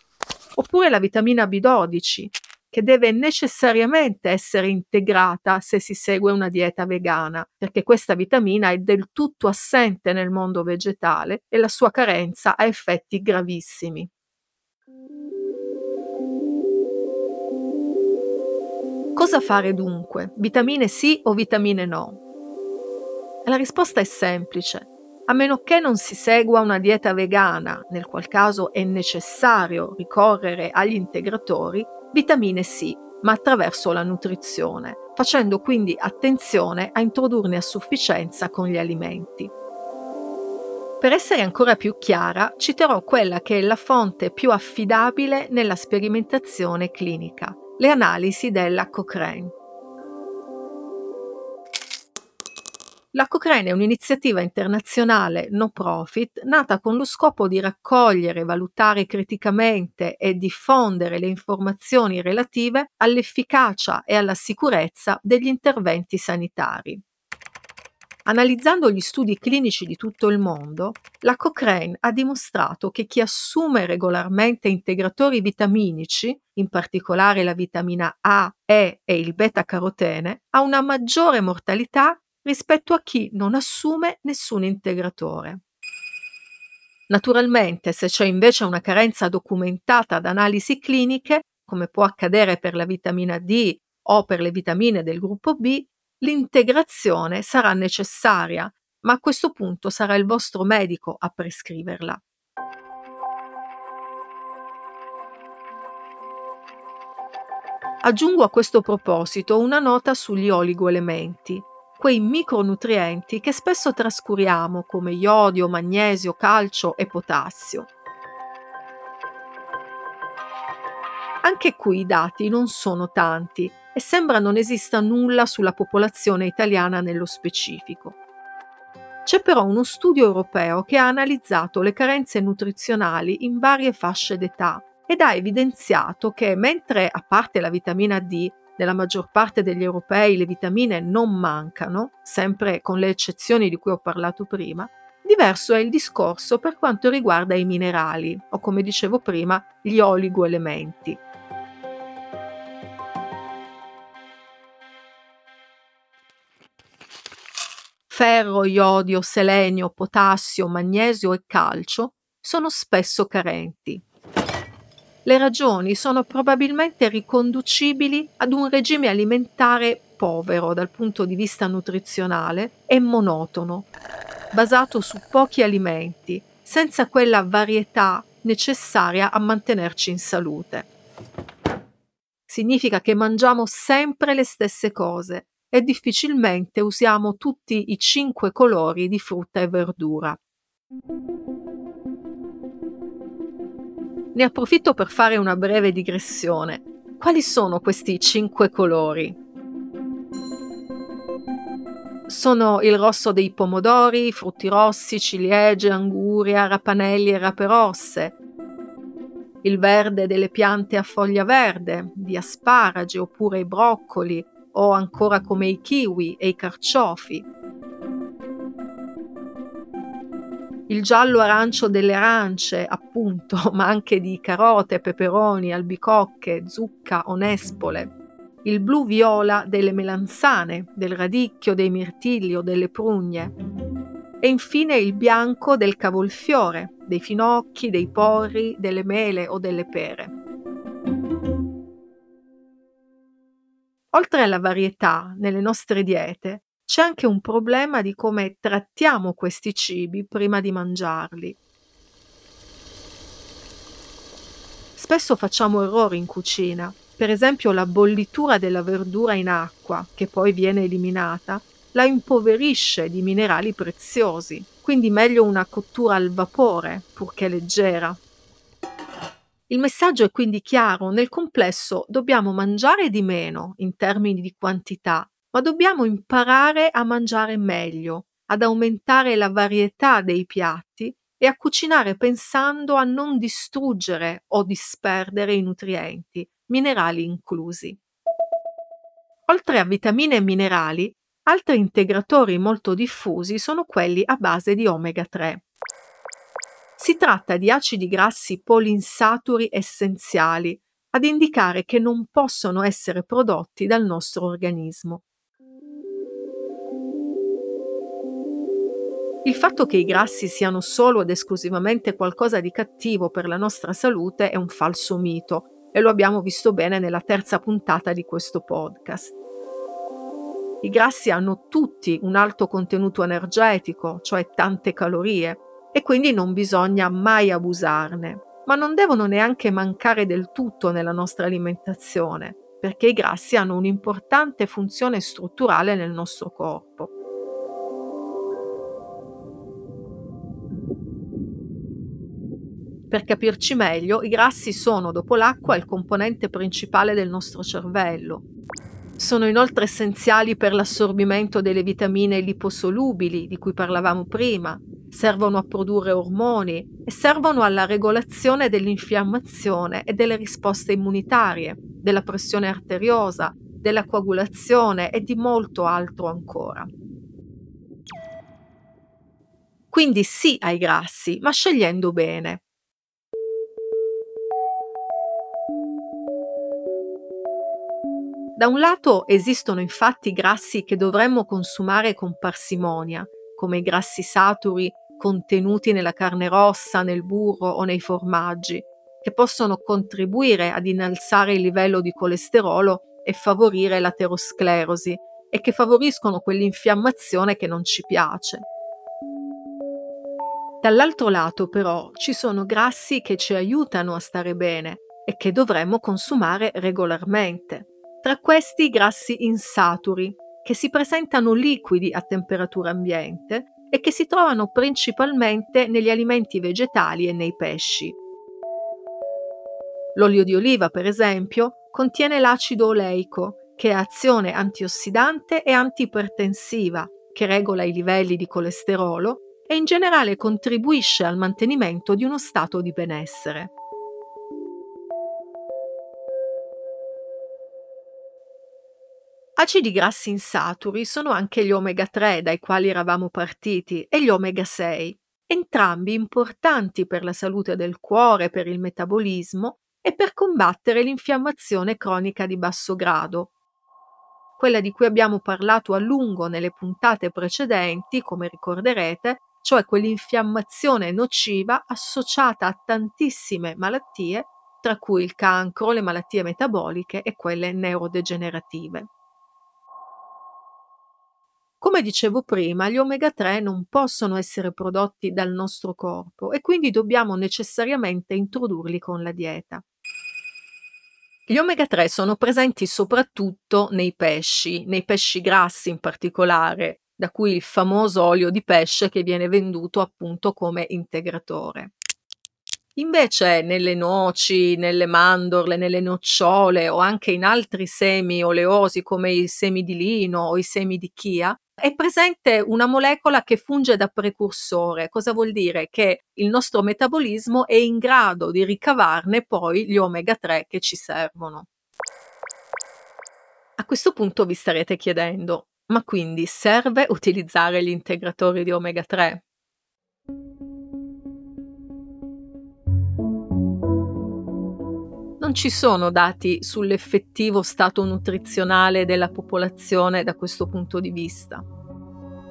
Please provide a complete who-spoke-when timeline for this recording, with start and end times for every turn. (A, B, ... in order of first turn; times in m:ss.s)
0:00.6-0:14.1 A
0:19.1-0:22.2 A
0:23.4-0:39.5 A
0:41.0-0:49.5 A
0:53.1-1:07.0 A
1:08.2-1:25.6 A
1:27.1-1:42.2 A
1:48.0-1:57.9 A
2:01.4-2:08.1 A
2:09.2-2:31.2 A
2:38.1-2:44.0 A
2:45.2-2:53.9 A
2:54.5-3:00.9 A
3:02.5-3:10.4 A
3:14.3-3:19.4 A
3:22.3-3:28.3 A
3:29.6-3:37.4 A
3:40.9-3:48.1 A
3:48.6-3:53.5 A
3:54.4-4:00.3 A
4:04.1-4:11.6 A
4:15.0-4:28.2 A
4:29.7-4:48.0 A
4:49.5-4:55.6 A
4:57.0-5:05.2 A
5:09.4-5:19.3 A
5:20.8-5:37.1 A
5:43.1-5:48.4 A
5:49.2-6:06.9 A
6:09.9-6:12.6 A
6:18.6-6:38.6 A
6:40.8-6:58.2 A
7:00.2-7:13.7 A
7:19.6-7:33.5 A
7:34.6-7:49.1 A
7:51.8-7:59.8 A
8:01.5-8:11.9 A
8:13.0-8:31.6 A
8:33.8-8:39.4 A
8:45.4-8:51.6 A